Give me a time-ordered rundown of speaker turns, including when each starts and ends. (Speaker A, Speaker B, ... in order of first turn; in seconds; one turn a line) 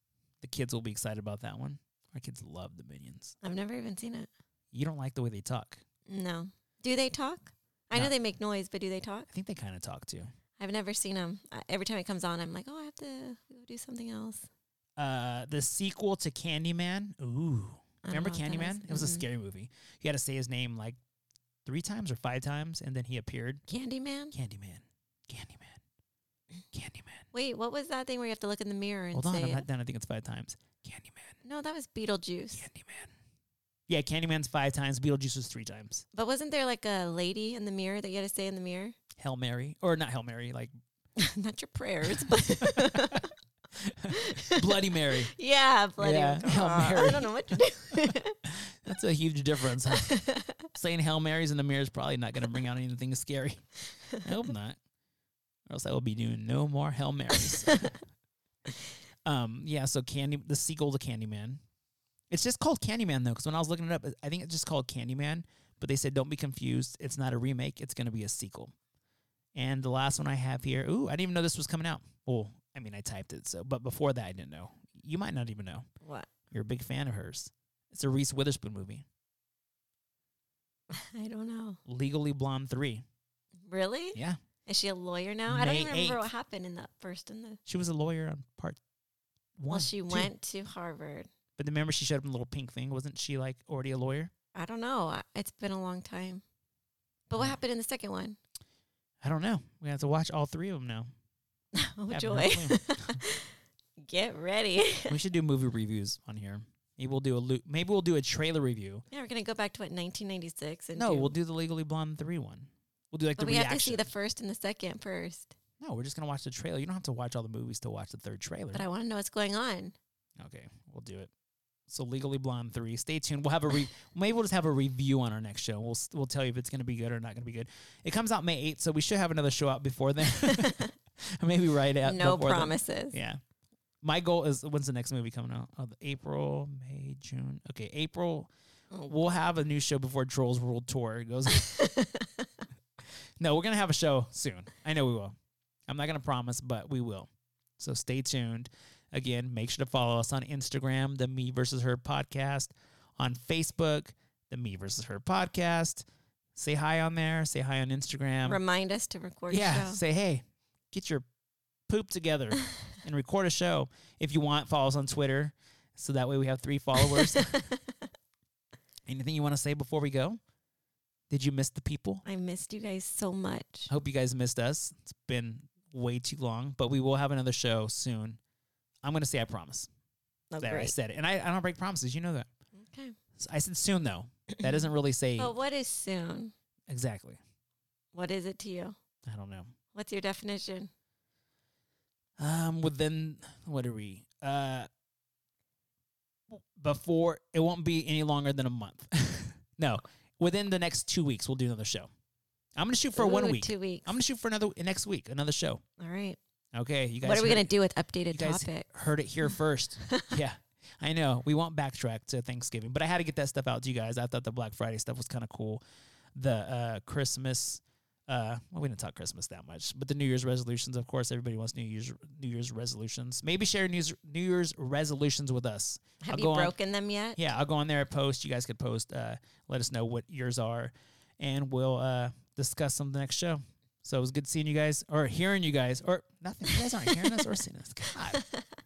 Speaker A: 0.4-3.4
Speaker B: 3.4-4.3
Speaker A: 4.7-5.8
Speaker B: 6.1-9.3
Speaker A: 9.3-10.3
Speaker B: 10.6-14.5
Speaker A: 15.0-21.0
Speaker B: 18.0-19.2
Speaker A: 21.6-23.6
Speaker B: 23.7-24.3
Speaker A: 24.3-25.8
Speaker A: 26.7-27.2
Speaker B: 27.3-29.6
Speaker A: 29.1-31.4
Speaker B: 31.4-32.6
Speaker A: 32.5-33.1
Speaker A: 33.9-36.0
Speaker B: 36.1-39.0
Speaker A: 39.2-40.7
Speaker B: 41.2-43.3
Speaker A: 42.1-43.2
Speaker A: 43.8-45.3
Speaker B: 44.1-48.4
Speaker A: 46.0-54.8
Speaker B: 49.9-50.7
Speaker A: 55.7-58.0
Speaker B: 57.5-57.8
Speaker A: 59.2-61.6
Speaker A: 62.3-68.7
Speaker A: 69.5-75.8
Speaker B: 76.0-76.3
Speaker A: 76.5-79.0
Speaker B: 80.9-81.8
Speaker A: 81.8-83.0
Speaker B: 83.7-87.6
Speaker A: 85.5-86.3
Speaker A: 87.7-88.8
Speaker A: 89.6-90.3
Speaker B: 89.7-91.3
Speaker A: 91.6-94.3
Speaker B: 94.5-96.4
Speaker B: 97.3-98.4
Speaker A: 99.2-101.1
Speaker B: 101.7-105.2
Speaker A: 102.1-103.2
Speaker A: 105.1-109.0
Speaker B: 109.1-111.3
Speaker A: 111.0-114.1
Speaker B: 113.4-115.5
Speaker A: 115.8-118.8
Speaker B: 118.7-120.0
Speaker A: 120.4-121.3
Speaker A: 121.9-133.4
Speaker B: 130.5-130.9
Speaker B: 132.0-133.2
Speaker A: 134.0-138.5
Speaker B: 138.9-139.2
Speaker A: 139.1-141.8
Speaker B: 141.5-142.5
Speaker A: 143.4-145.3
Speaker A: 145.9-158.6
Speaker B: 158.4-160.0
Speaker A: 159.5-161.2
Speaker A: 161.9-167.7
Speaker B: 166.9-168.0
Speaker A: 169.1-170.4
Speaker A: 171.3-172.2
Speaker B: 172.2-173.9
Speaker A: 173.9-178.4
Speaker A: 179.0-179.9
Speaker B: 180.5-180.9
Speaker A: 180.6-182.5
Speaker B: 182.8-183.2
Speaker A: 183.4-185.5
Speaker B: 184.5-184.8
Speaker B: 185.4-186.5
Speaker A: 186.9-187.4
Speaker B: 188.1-188.9
Speaker A: 189.2-189.7
Speaker B: 189.9-190.9
Speaker A: 192.4-194.9
Speaker A: 196.5-202.1
Speaker A: 202.8-205.8
Speaker B: 203.1-204.2
Speaker B: 206.0-206.4
Speaker A: 206.7-207.7
Speaker B: 207.2-208.9
Speaker A: 208.3-215.8
Speaker B: 209.5-210.3
Speaker A: 216.3-226.7
Speaker B: 226.2-227.4
Speaker A: 227.3-238.4
Speaker B: 236.7-237.4
Speaker B: 238.3-238.6